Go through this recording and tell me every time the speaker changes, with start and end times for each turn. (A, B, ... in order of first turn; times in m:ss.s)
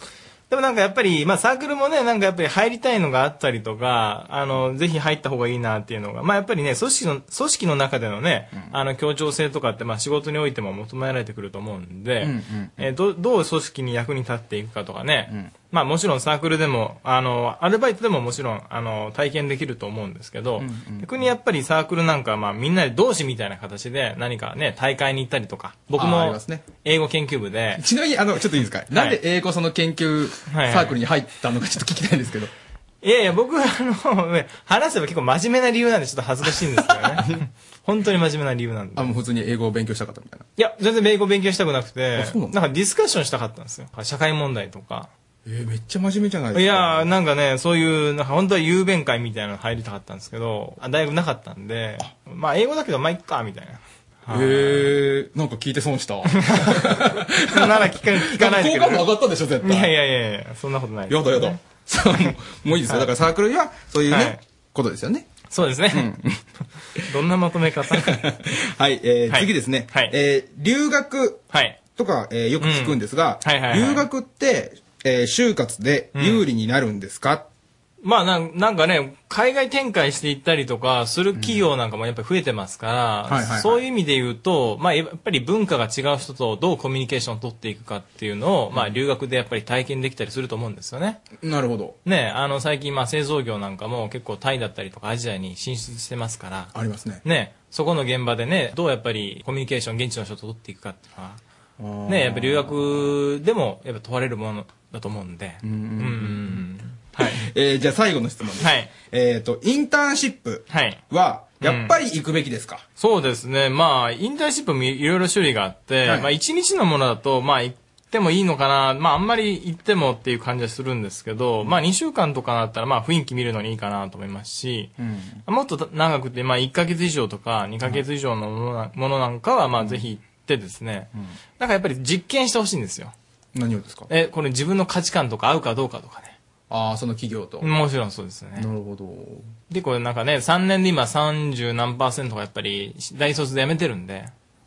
0:00.5-0:27.8 A
0:12.2-0:12.9 B
0:15.3-0:15.6 B
0:20.6-0:21.2 B
0:25.9-0:26.7 B
0:27.8-0:32.5 B
0:28.9-0:29.2 A
0:30.5-0:31.0 A
0:33.0-0:39.1 A
0:39.0-0:40.5 B
0:40.6-0:45.1 A
0:42.2-0:42.5 B
0:45.4-0:47.1 B
0:46.5-0:54.9 A
0:54.3-0:59.9 B
0:56.3-0:56.8 A
0:57.5-0:59.1 A
0:59.6-1:01.6 A
1:01.1-1:05.4 B
1:04.1-1:04.4 A
1:05.4-1:06.1 A
1:05.9-1:06.4 B
1:07.1-1:08.2 A
1:08.0-1:17.5 B
1:09.3-1:10.1 A
1:11.5-1:11.9 A
1:12.6-1:14.0 A
1:16.1-1:16.4 A
1:18.0-1:31.2 A
1:21.4-1:21.6 B
1:23.3-1:23.8 B
1:31.4-1:32.0 B
1:32.0-1:36.7 A
1:36.7-1:37.2 B
1:37.2-1:41.4 A
1:41.8-1:43.1 B
1:42.1-1:47.4 A
1:45.6-1:46.6 B
1:47.2-1:52.8 B
1:48.6-1:48.9 A
1:50.7-1:51.0 A
1:51.6-1:51.9 A
1:53.0-2:04.9 A
2:05.0-2:05.4 B
2:05.5-2:13.1 A
2:09.8-2:10.0 B
2:13.5-2:14.1 B
2:14.1-2:16.4 A
2:16.7-2:17.7 B
2:17.6-2:18.7 A
2:18.6-2:19.5 B
2:19.7-2:24.3 A